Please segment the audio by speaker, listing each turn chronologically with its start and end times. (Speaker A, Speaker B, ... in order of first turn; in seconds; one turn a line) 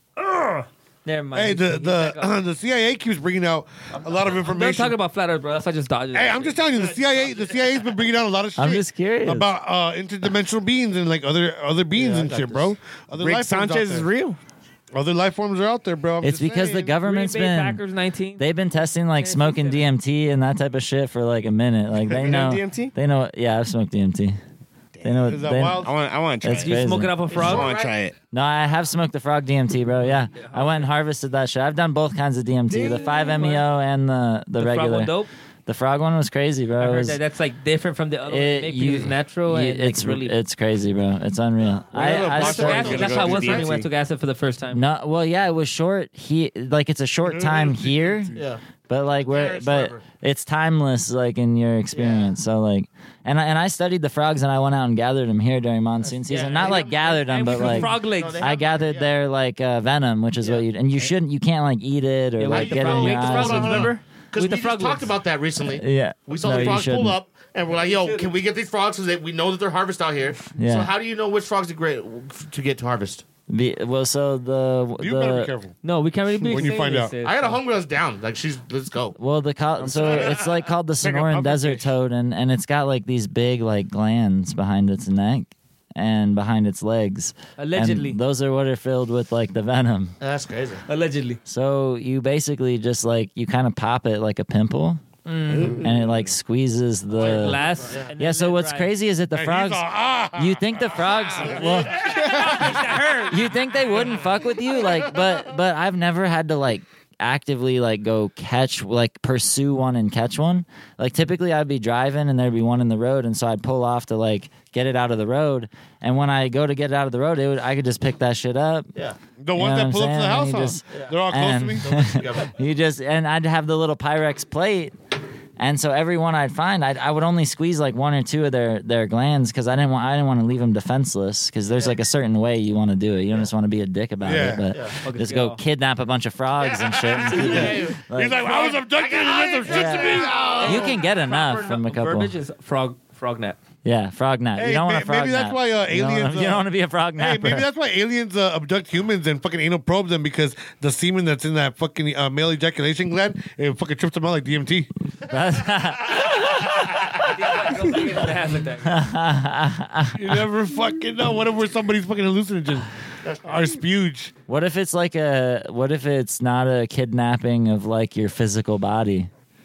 Speaker A: 0.2-2.4
Speaker B: 1.3-5.0
Speaker A: 3.9-6.7
Speaker B: 6.1-14.1
Speaker C: 6.7-7.9
Speaker D: 8.6-9.5
Speaker C: 11.9-12.7
Speaker E: 13.2-14.4
Speaker B: 14.9-17.0
Speaker D: 16.2-17.8
Speaker A: 17.0-18.4
Speaker D: 18.4-24.4
Speaker A: 19.1-19.9
Speaker E: 22.1-22.9
Speaker E: 24.9-28.1
Speaker D: 25.0-25.9
Speaker B: 25.2-25.9
Speaker D: 26.4-27.2
Speaker A: 26.5-27.7
Speaker C: 27.3-27.9
Speaker D: 28.3-35.1
Speaker A: 30.3-30.9
Speaker E: 32.7-33.5
Speaker A: 32.7-33.6
Speaker A: 34.6-35.3
Speaker D: 35.7-37.2
Speaker A: 36.8-40.4
Speaker D: 38.3-43.1
Speaker E: 41.9-43.9
Speaker A: 42.0-44.8
Speaker C: 42.4-43.7
Speaker D: 44.7-48.3
Speaker B: 47.3-48.4
Speaker C: 48.4-48.6
Speaker D: 48.9-63.9
Speaker C: 49.2-50.0
Speaker C: 51.9-52.3
Speaker A: 56.2-58.5
Speaker C: 56.3-59.1
Speaker A: 62.4-65.1
Speaker C: 62.5-73.2
Speaker D: 65.8-67.2
Speaker A: 66.5-66.8
Speaker A: 67.7-68.4
Speaker D: 70.6-70.9
Speaker D: 73.5-75.5
Speaker B: 75.0-75.8
Speaker A: 75.8-77.5
Speaker B: 76.5-77.2
Speaker C: 77.2-79.2
Speaker D: 79.2-90.2
Speaker B: 79.8-80.4
Speaker C: 80.0-80.4
Speaker B: 81.0-81.9
Speaker A: 87.6-88.2
Speaker C: 90.2-90.8
Speaker A: 90.9-91.4
Speaker D: 91.5-95.0
Speaker A: 95.3-95.8
Speaker E: 95.5-96.3
Speaker D: 95.6-97.6
Speaker A: 97.1-98.9
Speaker C: 97.6-98.1
Speaker D: 98.2-102.0
Speaker B: 99.3-102.9
Speaker A: 101.5-103.5
Speaker D: 103.3-118.9
Speaker B: 103.9-104.2
Speaker B: 119.4-121.9
Speaker D: 119.6-124.9
Speaker C: 121.8-122.5
Speaker D: 125.6-138.7
Speaker B: 134.2-134.7
Speaker C: 134.7-135.0
Speaker A: 135.0-135.6
Speaker C: 136.6-141.3
Speaker B: 137.4-140.8
Speaker D: 139.6-142.4
Speaker A: 140.6-143.6
Speaker D: 143.8-147.7
Speaker B: 144.6-154.9
Speaker D: 155.3-157.1
Speaker C: 155.8-156.8
Speaker A: 157.2-159.0
Speaker D: 158.8-160.4
Speaker B: 160.2-162.9
Speaker C: 163.2-163.8
Speaker B: 163.4-164.3
Speaker D: 164.5-169.3